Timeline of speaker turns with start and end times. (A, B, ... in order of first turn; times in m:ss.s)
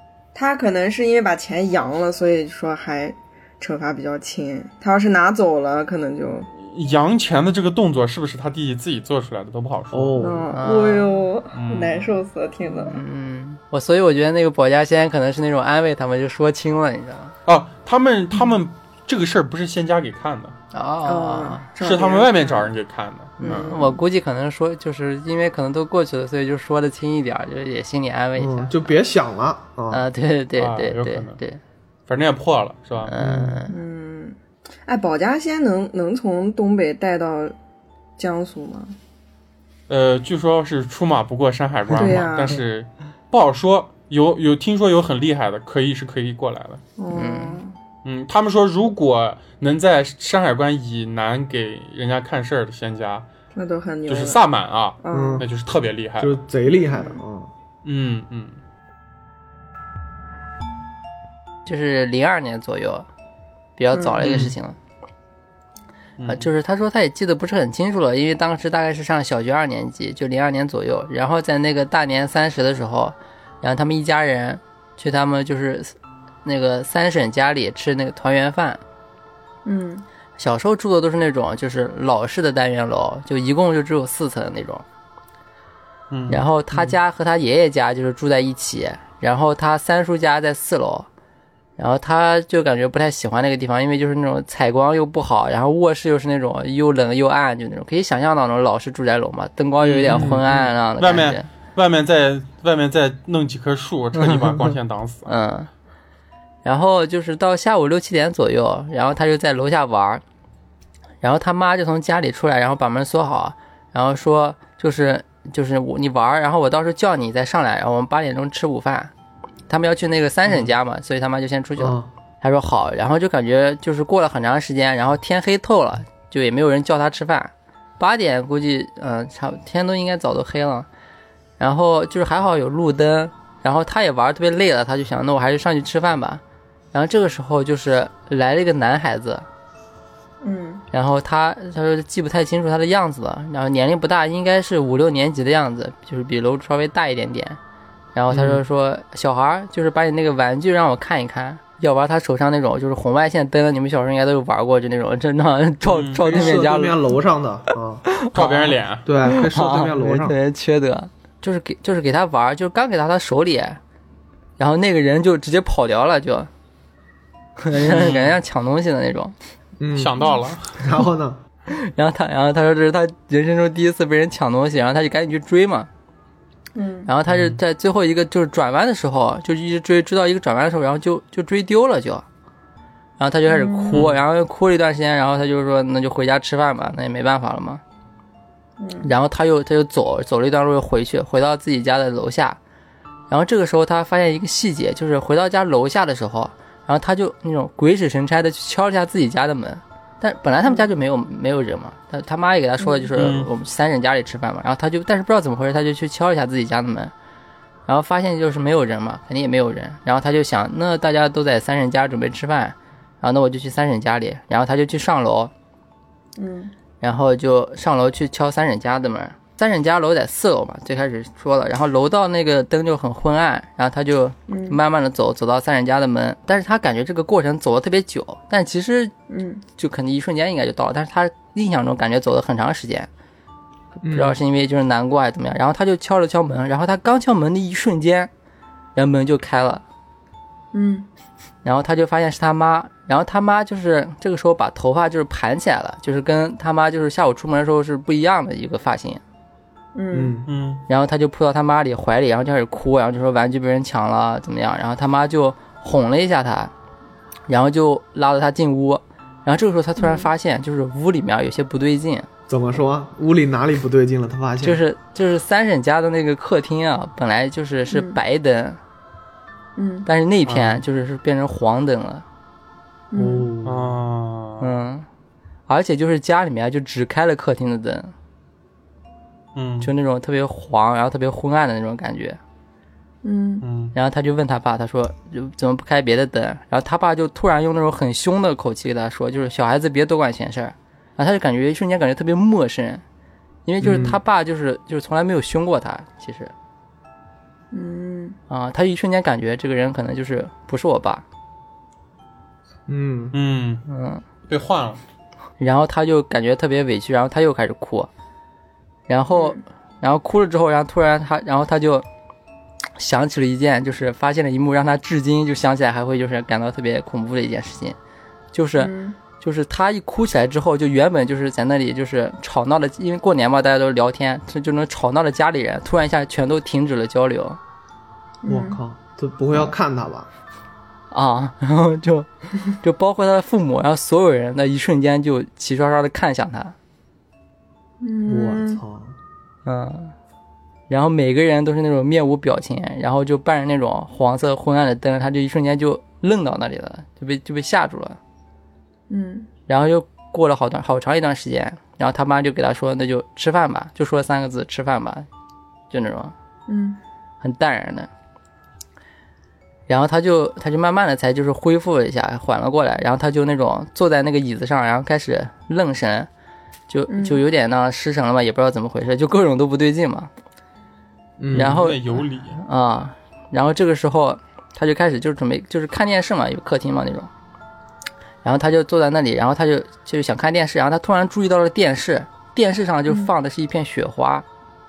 0:00.3-0:06.5 A
0:06.6-0:10.2 B
0:09.9-0:10.5 C
0:10.2-0:13.0 A
0:10.5-0:11.2 D
0:11.5-0:12.2 B
0:12.8-0:17.3 D
0:17.4-0:20.6 B
0:20.7-0:21.6 D
0:21.0-0:22.7 A
0:21.8-0:23.7 B
0:23.4-0:29.0 D
0:23.4-0:24.0 A
0:28.4-0:30.0 C
0:29.9-0:31.6 D
0:30.6-0:31.4 B
0:32.1-0:33.1 B
0:33.1-0:33.8 D
0:33.2-0:33.6 C
0:33.7-0:37.5 A
0:38.2-0:39.0 A
0:39.9-0:46.8 B
0:41.9-0:42.6 A
0:47.0-0:47.8 A
0:47.1-0:47.6 D
0:48.0-0:53.2 B
0:53.5-0:54.4 A
0:54.1-0:56.4 B
0:55.0-0:55.4 A
0:55.1-0:55.5 C
0:56.2-0:57.5 C
0:56.7-0:57.2 A
0:57.8-0:58.6 B
1:01.6-1:03.0 D
1:03.8-1:04.8 D
1:03.9-1:04.5 A
1:06.2-1:06.5 B
1:06.3-1:18.8 D
1:19.6-1:20.0 A
1:20.4-1:24.8 D
1:26.1-1:26.9 B
1:26.3-1:31.1 D
1:31.8-1:41.4 D
1:39.8-1:45.3 B
1:40.1-1:40.6 C
1:44.2-1:44.7 D
1:45.2-1:45.7 D
1:46.6-1:50.2 D
1:51.2-1:59.1 D
1:59.7-2:10.9 D
2:01.8-2:02.1 C
2:11.6-2:16.4 D
2:16.9-2:19.4 D
2:20.4-2:20.8 A
2:20.9-2:27.6 D
2:28.1-2:37.0 D
2:28.3-2:28.6 C
2:35.9-2:36.6 B
2:36.2-2:38.0 C
2:38.0-2:43.8 D
2:38.3-2:39.1 B
2:39.0-2:40.4 C
2:44.6-2:46.5 D
2:47.6-2:49.3 D
2:47.7-2:48.4 B
2:49.8-2:50.2 C
2:49.9-2:50.8 B
2:50.8-2:51.4 C
2:51.7-2:55.9 D
2:56.7-2:57.1 A
2:57.1-3:02.2 D
3:03.2-3:07.8 D
3:03.5-3:04.0 A
3:03.9-3:04.2 B
3:08.8-3:09.1 A
3:09.0-3:12.6 D
3:13.3-3:27.1 D
3:22.8-3:23.1 A
3:23.2-3:23.5 B
3:27.9-3:35.5 D
3:36.4-3:36.7 A
3:37.0-3:49.1 D
3:44.5-3:44.8 A
3:49.3-3:49.6 A
3:49.8-3:53.1 D
3:54.0-3:54.4 C
3:54.1-3:58.3 D
3:59.0-3:59.8 D
4:00.7-4:01.1 A
4:01.6-4:09.2 D
4:09.9-4:10.4 A
4:10.1-4:10.5 C
4:10.4-4:10.8 B
4:10.9-4:16.7 D
4:17.5-4:22.3 D
4:20.0-4:20.3 A
4:22.5-4:24.8 C
4:24.6-4:28.8 D
4:27.9-4:28.2 A
4:29.8-4:30.1 A
4:30.0-4:32.2 D
4:30.5-4:30.8 B
4:33.1-4:33.5 A
4:33.1-4:34.0 C
4:33.6-4:34.8 B
4:34.6-4:35.1 D
4:35.7-4:38.1 D
4:39.5-4:39.9 B
4:39.8-4:42.4 D
4:43.2-4:43.6 A
4:43.6-4:43.9 B
4:43.9-4:53.0 D
4:53.6-4:56.5 D
4:53.8-4:54.2 C
4:57.7-4:58.4 A
4:58.5-5:01.2 D
5:02.9-5:03.3 C
5:03.3-5:03.8 B
5:03.8-5:04.2 D
5:04.5-5:05.0 B
5:05.6-5:08.1 D
5:09.1-5:12.0 D
5:09.3-5:09.6 A
5:13.0-5:18.0 D
5:18.5-5:27.6 D
5:18.8-5:19.2 A
5:28.4-5:28.8 A
5:28.5-5:30.3 C
5:31.1-5:36.7 D
5:38.0-5:38.8 A
5:38.3-5:39.1 C
5:39.6-5:40.1 D
5:40.9-5:48.2 D
5:49.1-5:49.5 A
5:49.7-5:55.2 D
5:55.9-5:56.3 D
5:56.7-5:57.0 A
5:57.4-5:58.1 D
5:59.9-6:06.3 D
6:06.9-6:10.3 D
6:07.1-6:07.4 A
6:11.4-6:11.8 C
6:11.5-6:12.6 B
6:11.5-6:17.3 D
6:18.4-6:24.4 D